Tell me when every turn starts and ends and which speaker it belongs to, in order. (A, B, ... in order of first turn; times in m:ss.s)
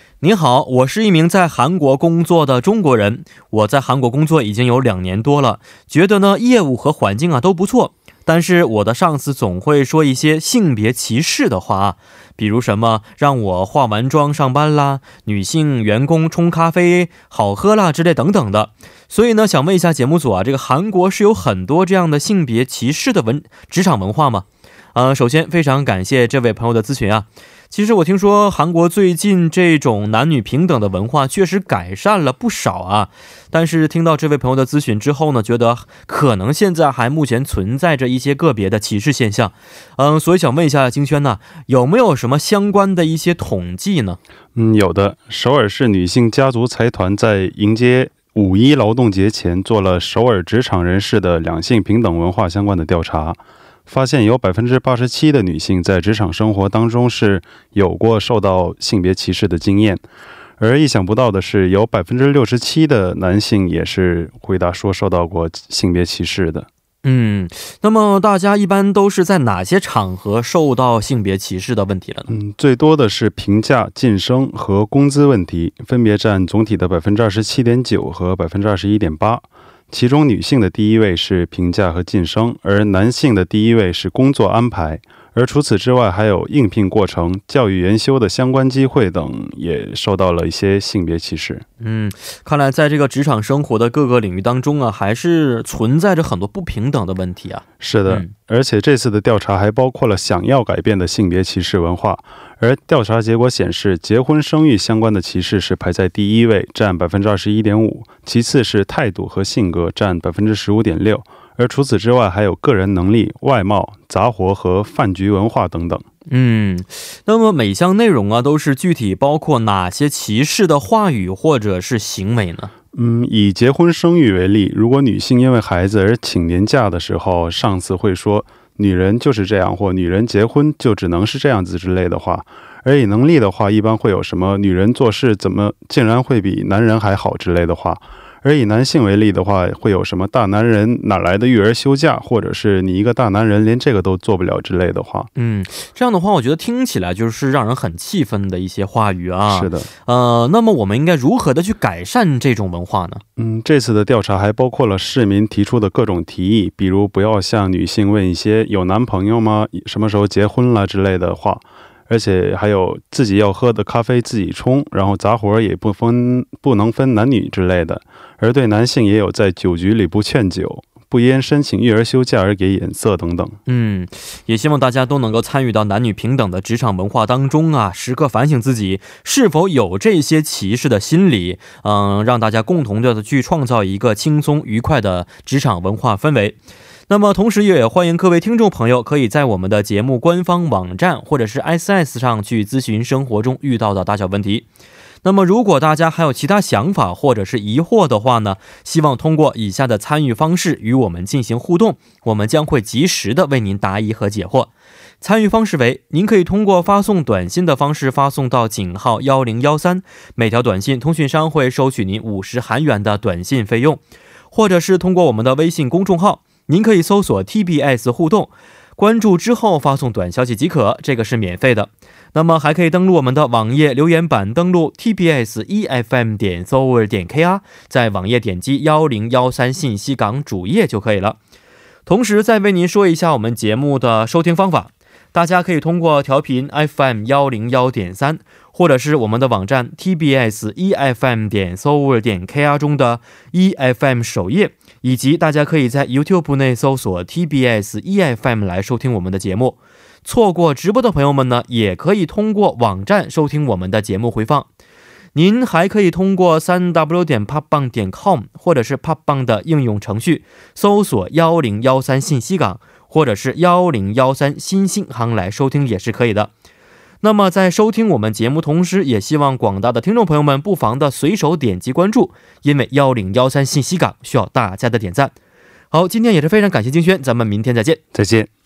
0:00.2-0:44.2 A
0:44.6-1:00.0 B
1:00.6-1:06.7 B
1:07.0-1:12.4 A
1:12.3-1:31.6 B
1:31.8-1:38.3 A
1:37.8-1:56.0 B
1:56.3-2:02.7 A
2:02.9-2:25.3 B
2:25.4-2:33.2 A
2:29.5-2:29.9 B
2:33.4-2:53.6 B
2:53.7-3:06.6 A
3:07.1-3:14.7 A
3:15.2-3:51.4 A
3:52.1-4:14.7 A
4:15.4-4:26.5 A
4:27.2-4:35.3 A
4:35.9-4:38.0 A
4:38.1-4:38.5 B